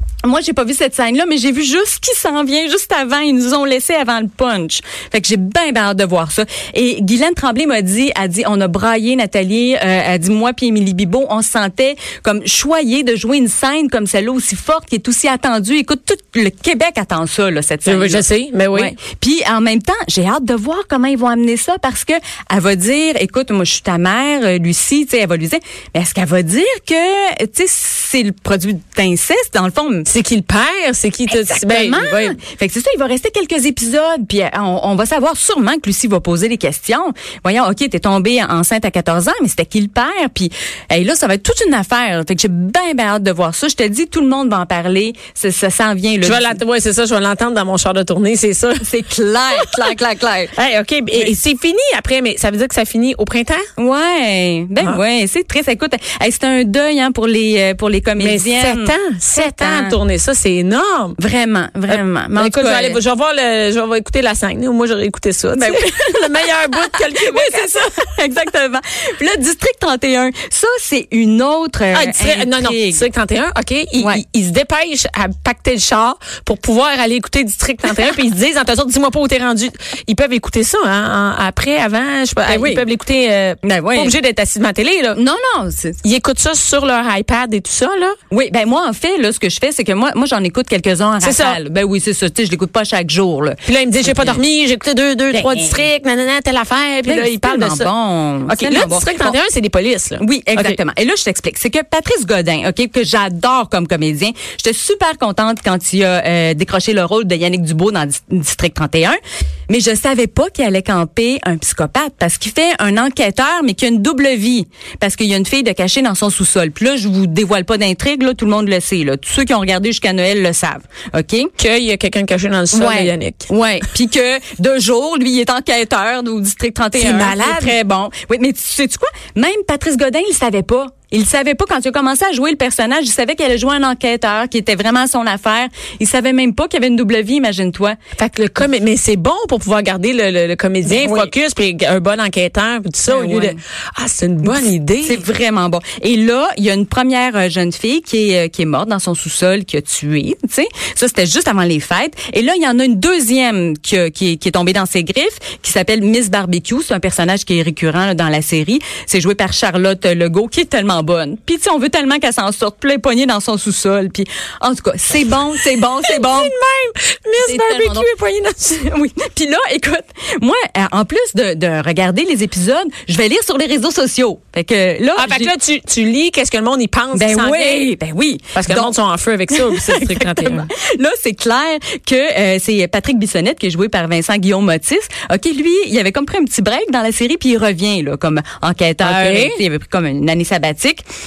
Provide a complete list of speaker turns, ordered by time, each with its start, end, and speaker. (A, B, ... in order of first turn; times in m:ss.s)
0:00.2-0:30.1 A
0:17.8-0:19.0 B
0:30.1-0:32.4 B
0:31.3-0:46.6 A
0:46.2-0:48.9 B
0:48.8-0:50.5 A
0:49.5-0:49.9 B
0:50.5-0:53.6 B
0:53.8-1:00.0 A
0:58.2-1:01.2 B
1:01.2-1:03.0 A
1:01.9-1:08.0 B
1:05.6-1:13.0 A
1:11.9-1:25.2 B
1:22.5-1:22.8 A
1:23.6-1:24.2 A
1:25.1-1:26.0 A
1:26.0-1:28.2 B
1:28.3-1:34.4 A
1:31.2-1:31.6 B
1:33.7-1:37.9 B
1:35.3-1:35.8 A
1:37.0-1:39.4 A
1:38.5-1:40.8 B
1:40.2-2:01.5 A
2:01.6-2:03.5 B
2:02.7-2:18.0 A
2:06.9-2:07.8 B
2:18.2-2:25.2 B
2:20.9-2:21.3 A
2:23.1-2:23.6 A
2:24.5-2:46.5 A
2:46.0-2:48.8 B
2:47.4-2:48.1 A
2:48.7-2:55.5 A
2:55.2-2:57.9 B
2:57.1-2:59.0 A
2:58.5-3:00.7 B
2:59.5-3:11.0 A
3:09.0-3:09.6 B